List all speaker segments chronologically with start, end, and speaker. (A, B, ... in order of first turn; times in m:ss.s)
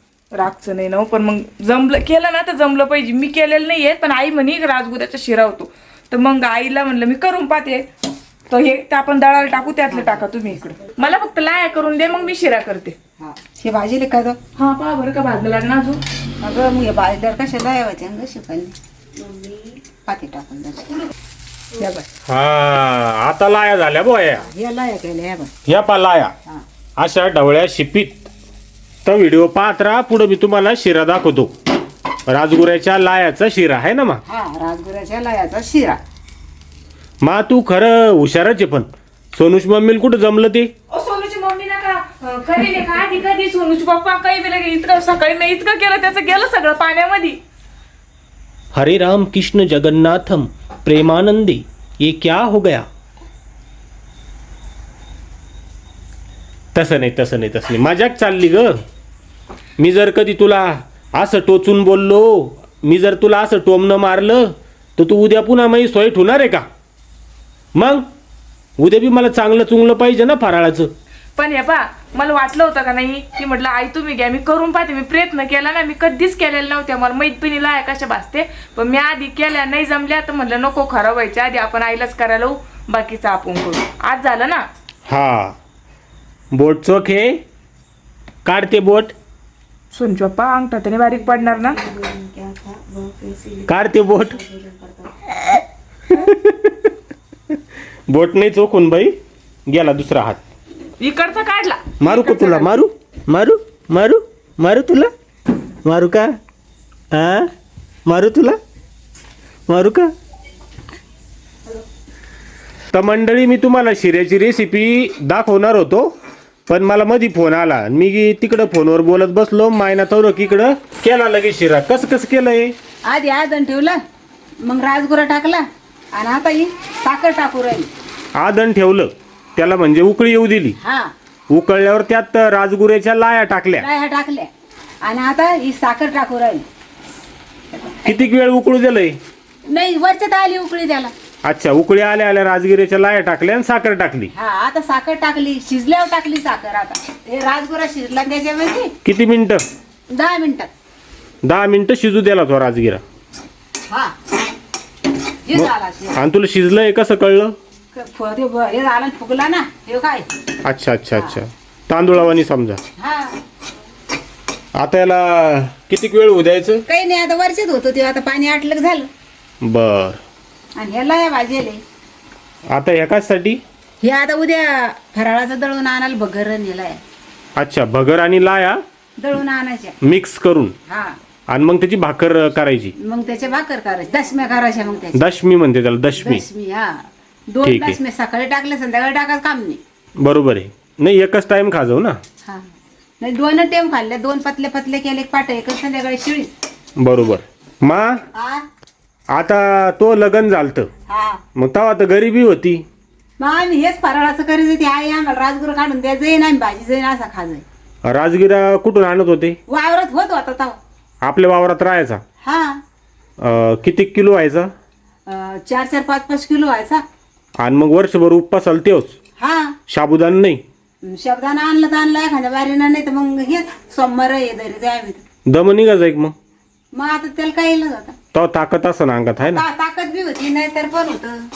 0:00.3-0:07.9 A
0:08.5-0:13.0 A
0:13.2-0:14.4 B
0:14.6-0:16.0 A
0:16.4-0:18.7 B
0:19.3-0:21.1 B
0:21.8-0:22.0 B
0:22.3-0:24.5 C
0:24.5-0:25.5 B
0:25.7-0:26.3 C
0:27.0-0:28.3 C
0:29.0-0:31.5 C
0:32.3-0:34.2 C
0:34.3-0:36.0 B
0:37.2-0:40.7 C
0:40.9-0:47.4 A
0:48.7-0:52.9 C
0:56.7-0:58.8 C
0:59.8-1:06.6 C
1:07.7-1:08.0 C
1:08.8-1:10.9 C
1:11.4-1:24.6 A
1:25.1-1:25.6 C
1:26.5-1:27.4 C
1:28.4-1:29.1 C
1:29.9-1:31.8 A
1:31.9-1:33.3 B
1:33.3-1:33.5 A
1:33.6-1:34.4 C
1:34.7-1:35.3 B
1:36.1-1:36.9 C
1:38.1-1:39.1 C
1:39.7-1:40.4 C
1:41.0-1:42.8 A
1:42.0-1:45.1 C
1:45.8-1:46.4 C
1:47.1-1:47.5 C
1:48.0-1:48.6 C
1:49.7-1:50.1 C
1:52.9-1:56.1 C
1:56.7-2:02.7 C
2:03.1-2:04.0 B
2:04.6-2:07.9 B
2:08.4-2:10.8 C
2:10.8-2:11.1 B
2:11.5-2:13.8 C
2:13.8-2:14.5 B
2:15.0-2:16.6 B
2:18.0-2:19.2 C
2:19.7-2:21.1 B
2:21.4-2:24.3 C
2:24.3-2:28.9 B
2:29.0-2:29.6 C
2:30.1-2:30.7 B
2:31.4-2:33.0 C
2:33.9-2:34.1 B
2:35.4-2:36.2 B
2:35.5-2:37.6 C
2:37.9-2:40.3 B
2:40.6-2:42.8 C
2:43.0-2:43.4 B
2:44.7-2:46.8 C
2:46.9-2:49.1 B
2:49.6-2:50.2 C
2:50.8-2:51.8 B
2:52.7-2:53.6 C
2:54.0-2:57.0 B
2:57.6-2:58.8 C
2:59.2-3:00.0 B
3:00.0-3:00.7 C
3:00.9-3:01.2 B
3:01.5-3:02.9 C
3:03.0-3:05.2 B
3:05.1-3:06.4 C
3:06.2-3:06.9 B
3:07.5-3:09.8 B
3:07.6-3:08.0 C
3:10.2-3:12.2 C
3:13.2-3:16.5 B
3:17.0-3:18.2 C
3:18.3-3:18.6 B
3:19.3-3:20.9 C
3:21.1-3:21.4 B
3:21.6-3:22.8 C
3:23.4-3:27.6 B
3:28.0-3:29.6 C
3:29.7-3:30.8 B
3:31.2-3:32.2 C
3:32.4-3:32.8 B
3:33.4-3:34.7 C
3:35.2-3:37.0 B
3:37.6-3:39.1 C
3:39.4-3:39.8 B
3:39.9-3:40.6 C
3:41.0-3:45.2 B
3:45.5-3:46.3 C
3:46.9-3:48.2 B
3:48.3-3:49.6 C
3:49.4-3:51.4 B